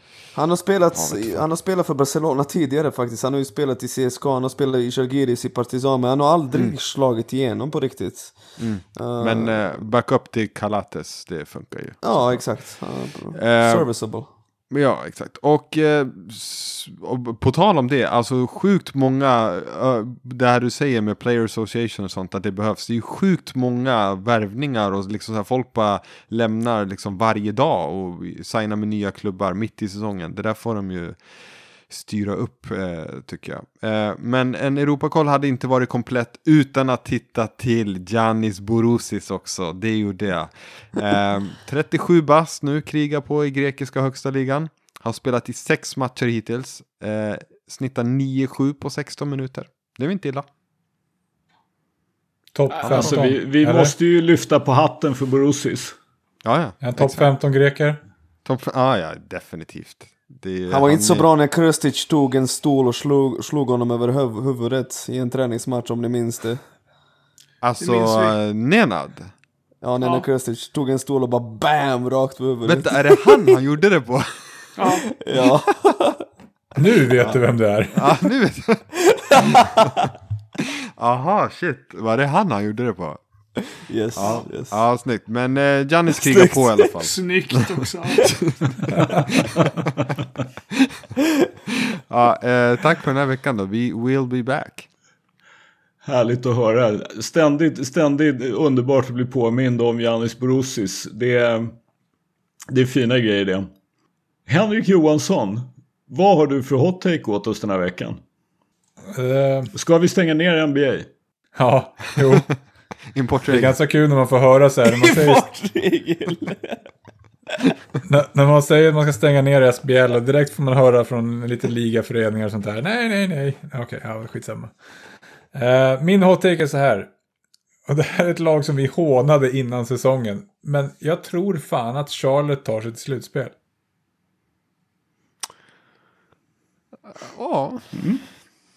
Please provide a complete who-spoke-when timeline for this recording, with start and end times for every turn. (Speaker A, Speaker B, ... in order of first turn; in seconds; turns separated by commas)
Speaker A: 0.3-8.4, Speaker B: 0.9-1.4, Speaker B: 8.6-12.6, Speaker A: 9.0-9.6, Speaker A: 12.0-14.3, Speaker B: 13.3-13.9, Speaker B: 14.7-31.2, Speaker B: 31.9-50.5, Speaker C: 52.5-53.9, Speaker D: 52.8-56.0, Speaker B: 56.5-57.3, Speaker C: 56.8-58.0, Speaker B: 58.5-61.3, Speaker A: 60.7-66.6, Speaker B: 67.6-69.3, Speaker E: 67.8-68.4, Speaker A: 69.8-73.6, Speaker E: 70.0-70.3, Speaker B: 72.7-74.8, Speaker E: 74.8-75.0, Speaker A: 74.9-76.2, Speaker C: 76.8-78.1, Speaker B: 77.9-78.8, Speaker A: 79.0-80.1, Speaker B: 79.4-79.9, Speaker B: 81.0-83.2, Speaker A: 83.9-84.8, Speaker B: 84.1-87.5, Speaker A: 86.3-86.9, Speaker E: 87.0-88.3, Speaker B: 88.2-89.1, Speaker B: 92.1-94.9, Speaker D: 96.0-101.7, Speaker D: 102.7-103.7, Speaker D: 104.5-108.2, Speaker C: 109.1-109.7, Speaker D: 109.7-111.1, Speaker C: 111.6-112.5, Speaker B: 113.1-113.8, Speaker C: 113.5-115.5, Speaker A: 114.8-116.8, Speaker C: 118.1-124.7, Speaker C: 125.5-127.1, Speaker C: 127.9-133.5, Speaker B: 137.1-137.9, Speaker D: 137.9-138.2